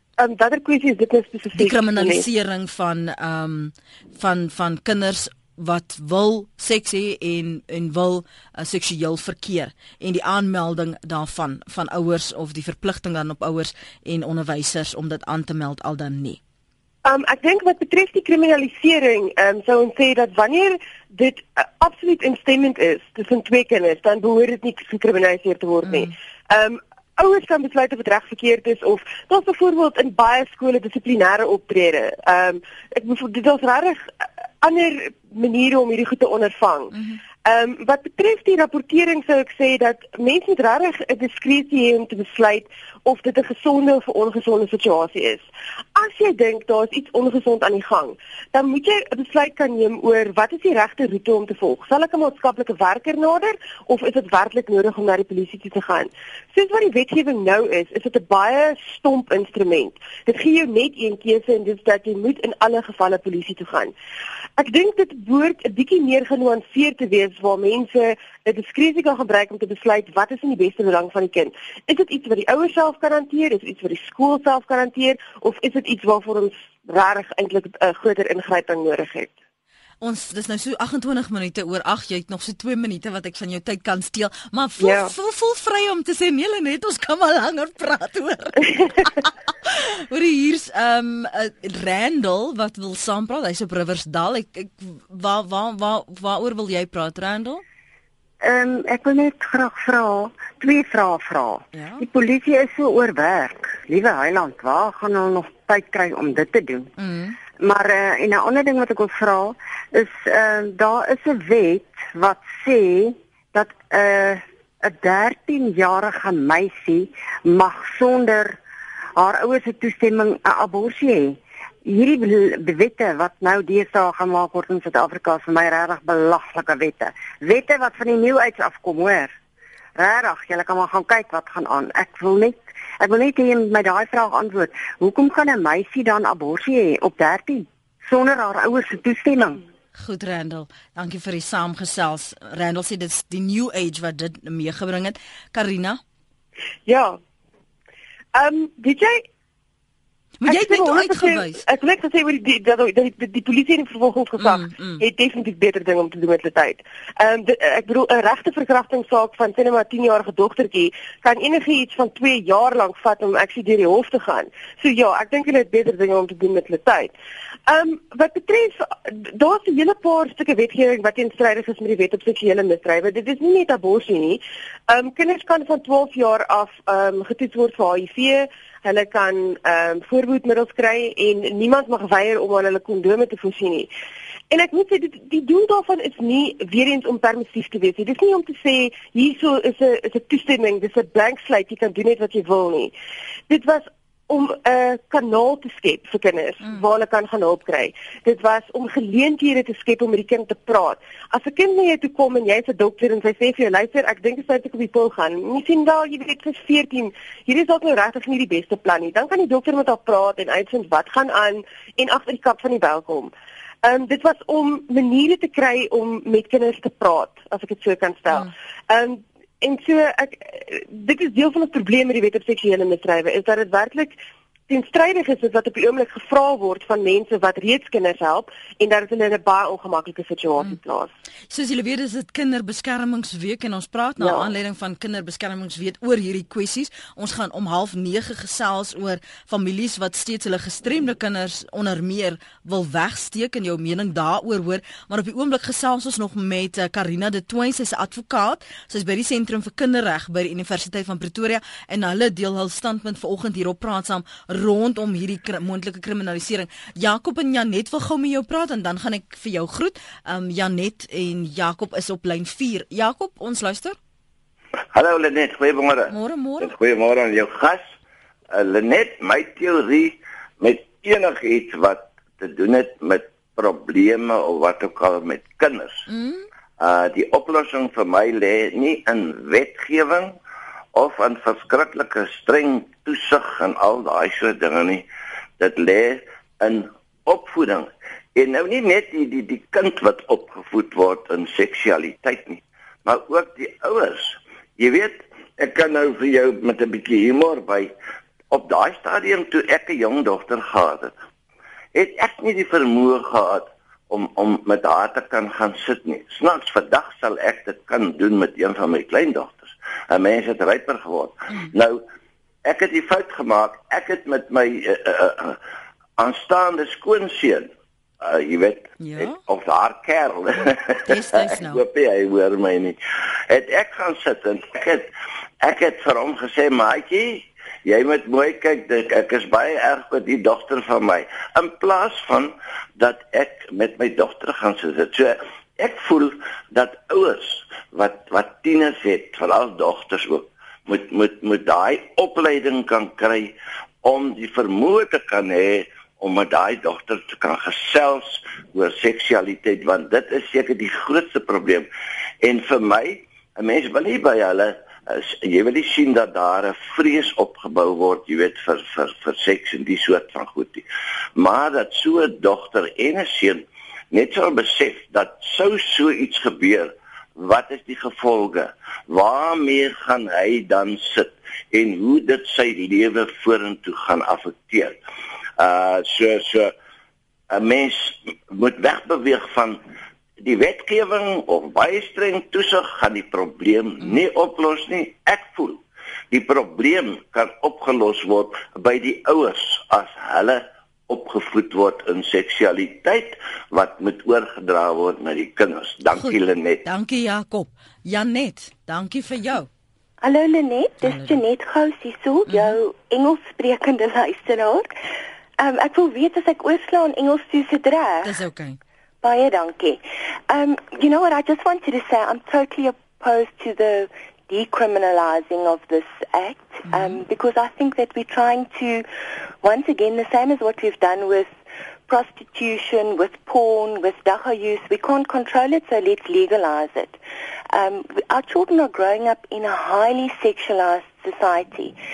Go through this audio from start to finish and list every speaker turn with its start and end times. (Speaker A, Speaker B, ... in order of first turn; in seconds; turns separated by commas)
Speaker A: 0.2-2.3, Speaker B: 1.5-16.4, Speaker A: 17.1-63.9, Speaker A: 64.6-79.3, Speaker B: 80.0-97.6, Speaker A: 84.8-85.1, Speaker C: 98.4-106.9, Speaker B: 101.7-102.0, Speaker B: 107.0-107.4, Speaker C: 107.6-118.6, Speaker C: 119.2-129.3, Speaker C: 130.0-139.6, Speaker B: 140.0-146.0, Speaker A: 146.9-147.2, Speaker A: 148.3-149.2, Speaker B: 150.4-151.6, Speaker A: 150.5-167.1, Speaker B: 154.4-155.0, Speaker A: 167.7-183.9, Speaker A: 184.5-192.9, Speaker A: 193.5-213.3, Speaker A: 213.8-224.2, Speaker A: 224.7-231.1, Speaker B: 231.5-264.0, Speaker A: 234.2-234.5, Speaker D: 264.9-267.9, Speaker B: 266.1-266.7, Speaker D: 268.5-276.1, Speaker B: 276.1-276.4, Speaker D: 276.8-280.4, Speaker D: 280.9-285.1, Speaker D: 285.6-297.9, Speaker D: 298.5-301.1, Speaker D: 301.9-312.0, Speaker D: 312.6-315.6, Speaker D: 316.2-325.1, Speaker B: 319.0-319.4, Speaker B: 320.7-321.8, Speaker D: 325.6-351.9, Speaker D: 352.4-360.9, Speaker D: 361.4-375.0, Speaker D: 375.6-376.7, Speaker D: 377.5-379.8, Speaker D: 380.4-396.9, Speaker B: 396.1-399.7, Speaker E: 400.2-404.9, Speaker B: 401.0-401.4, Speaker B: 402.5-402.8, Speaker E: 405.6-408.3, Speaker B: 408.2-408.8, Speaker E: 409.2-419.1, Speaker B: 416.9-417.2, Speaker E: 419.6-421.5, Speaker E: 422.1-427.2, Speaker E: 427.7-432.0